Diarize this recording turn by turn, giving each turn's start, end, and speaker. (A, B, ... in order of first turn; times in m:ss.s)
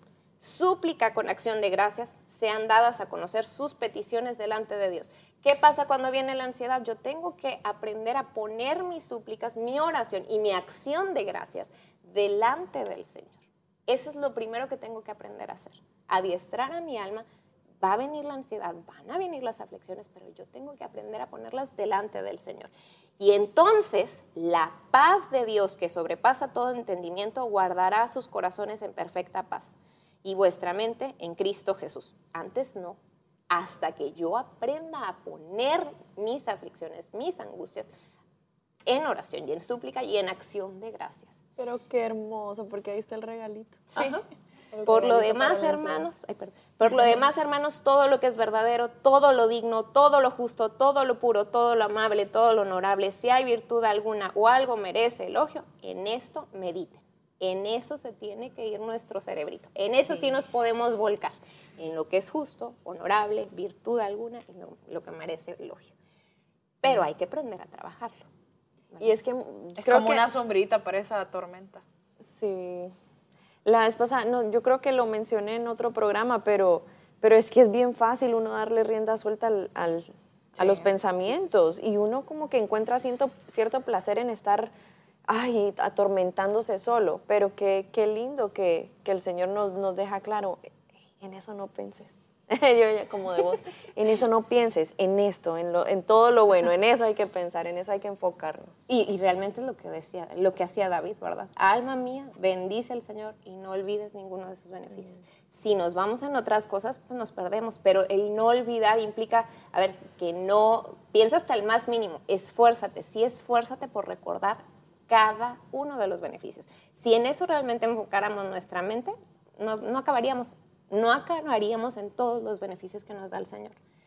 0:00.4-0:17.3 A
0:17.8-0:33.0 A
0:33.5-0:37.9 A
0:38.9-0:41.4 A
0:41.6-0:43.9 B
0:44.0-0:44.2 A
0:44.7-0:46.0 B
0:44.8-1:06.0 A
1:06.8-1:08.3 A
1:08.9-1:09.2 A
1:09.0-1:10.2 B
1:09.8-1:11.8 C
1:12.2-1:12.9 B
1:13.6-1:24.7 B
1:20.6-1:20.9 C
1:25.3-1:38.8 B
1:38.9-2:03.8 A